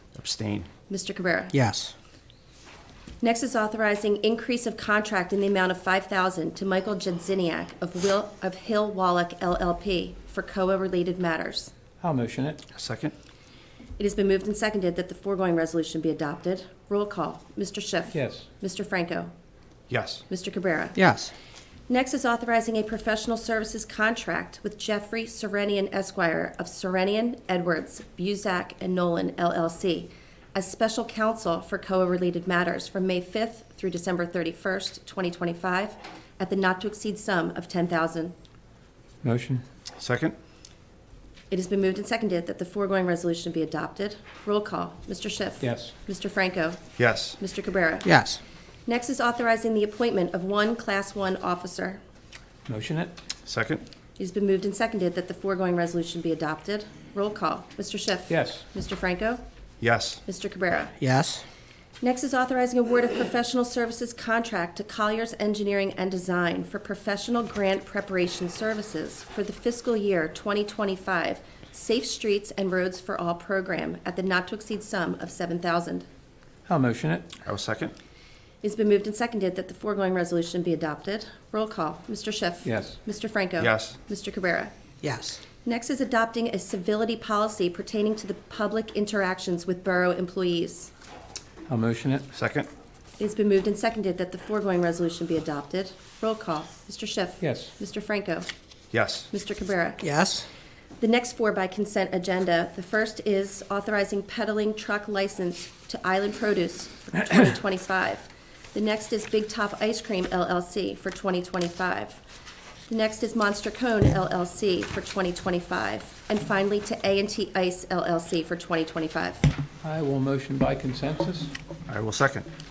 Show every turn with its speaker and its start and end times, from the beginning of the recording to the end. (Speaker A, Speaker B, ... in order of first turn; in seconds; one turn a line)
Speaker A: 0.2-0.7
Speaker B: 0.9-1.5
Speaker C: 1.5-1.9
Speaker B: 3.2-11.7
Speaker D: 12.0-12.6
Speaker A: 12.7-13.1
Speaker B: 14.0-19.3
Speaker D: 18.1-18.5
Speaker A: 19.9-20.2
Speaker B: 20.3-21.0
Speaker C: 21.0-21.3
Speaker B: 21.9-38.3
Speaker D: 39.2-39.6
Speaker A: 40.0-40.4
Speaker B: 41.5-46.8
Speaker D: 45.6-45.9
Speaker A: 47.0-47.4
Speaker B: 47.4-48.1
Speaker C: 48.0-48.4
Speaker B: 48.9-52.0
Speaker D: 52.7-53.1
Speaker A: 53.5-53.8
Speaker B: 54.2-59.4
Speaker D: 58.3-58.6
Speaker A: 59.8-60.2
Speaker B: 60.3-61.0
Speaker C: 61.0-61.4
Speaker B: 62.0-76.1
Speaker D: 76.7-77.3
Speaker A: 77.5-77.9
Speaker B: 78.6-84.7
Speaker D: 82.6-83.0
Speaker A: 83.6-84.0
Speaker C: 85.0-85.4
Speaker B: 85.6-90.9
Speaker D: 91.7-92.3
Speaker A: 92.3-92.7
Speaker B: 93.2-98.5
Speaker D: 97.4-97.7
Speaker A: 98.9-99.3
Speaker B: 99.3-100.0
Speaker C: 100.0-100.5
Speaker B: 101.0-112.2
Speaker B: 112.9-119.5
Speaker D: 119.8-121.5
Speaker A: 121.9-122.5